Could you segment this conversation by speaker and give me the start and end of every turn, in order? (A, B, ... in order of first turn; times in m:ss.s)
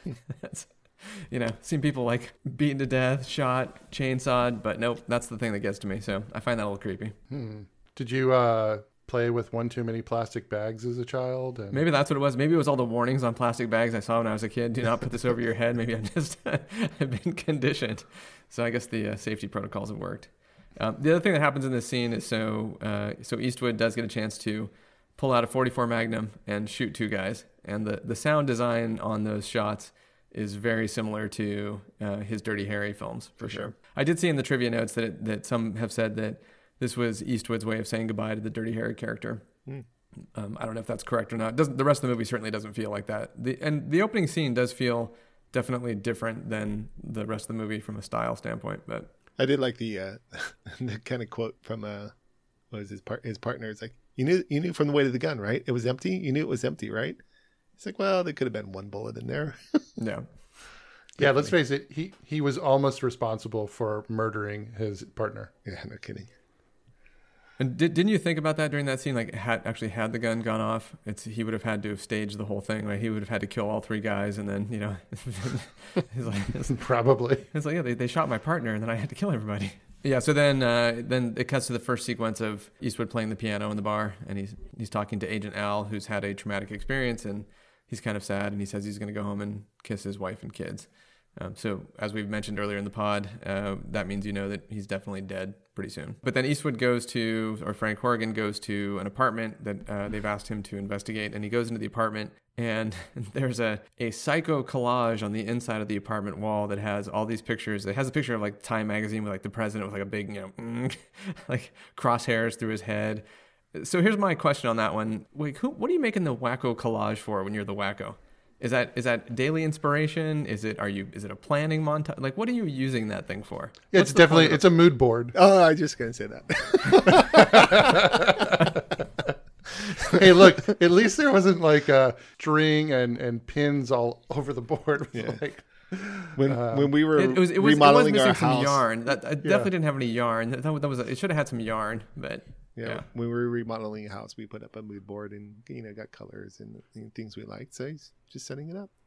0:00.3-0:07.1 A
0:07.3-0:11.8 B
0:11.7-0:39.4 A
0:33.4-0:33.7 C
0:40.4-0:49.1 A
0:49.4-0:52.1 C
0:52.7-0:57.2 C
0:57.8-0:59.8 C
1:00.0-1:00.3 A
1:01.2-1:05.5 B
1:05.6-1:06.3 C
1:07.6-1:16.8 A
1:16.7-1:17.4 B
1:17.5-2:04.6 A
2:03.9-2:05.4 B
2:05.3-2:08.4 C
2:07.4-2:08.6 B
2:10.1-2:16.9 B
2:15.1-2:15.4 C
2:16.4-2:18.8 C
2:17.1-2:23.0 A
2:19.4-2:19.7 B
2:22.8-2:28.9 C